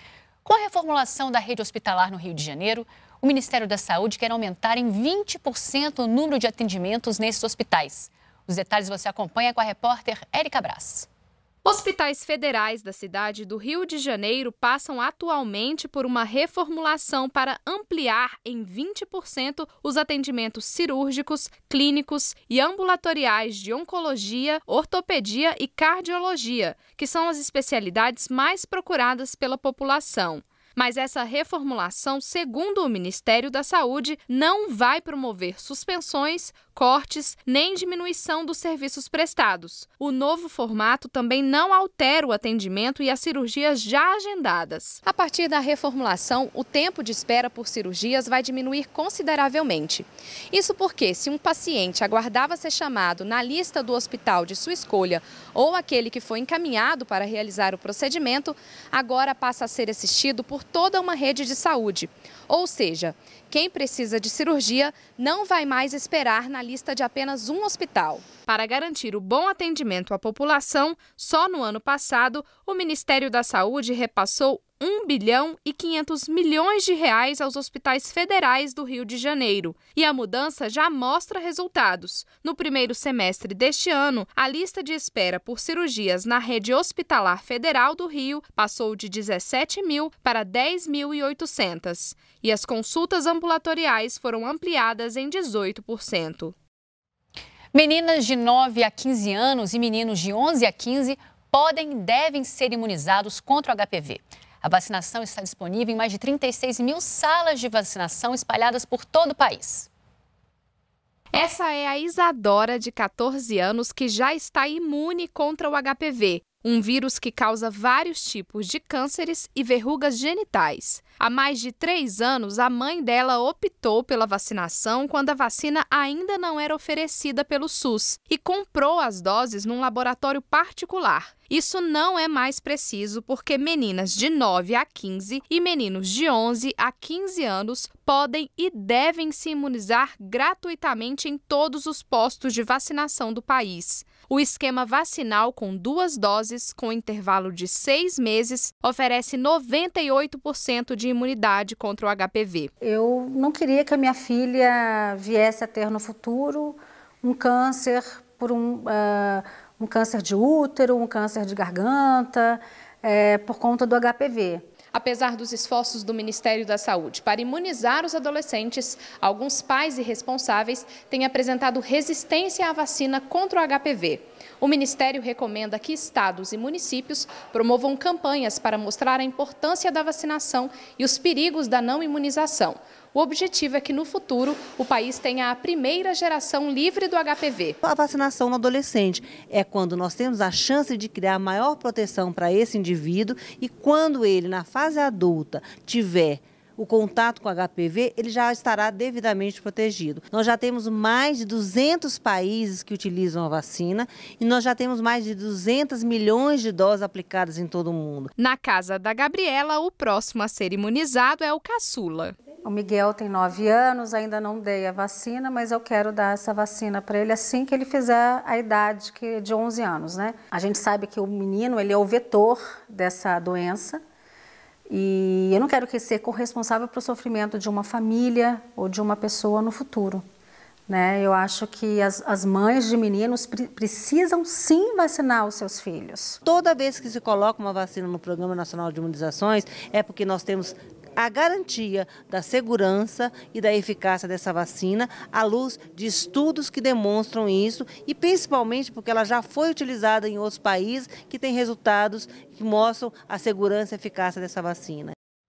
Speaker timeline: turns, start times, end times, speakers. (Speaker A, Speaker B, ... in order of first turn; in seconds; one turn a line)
Speaker A: 0.4-11.1
Speaker B: 11.6-96.5
Speaker A: 97.7-109.9
Speaker B: 111.3-152.7
Speaker C: 152.8-164.6
Speaker B: 164.9-187.8
Speaker D: 187.8-208.3
Speaker B: 208.4-212.3
Speaker C: 212.6-224.0
Speaker C: 224.9-230.2
Speaker C: 230.9-236.4
Speaker D: 236.4-255.1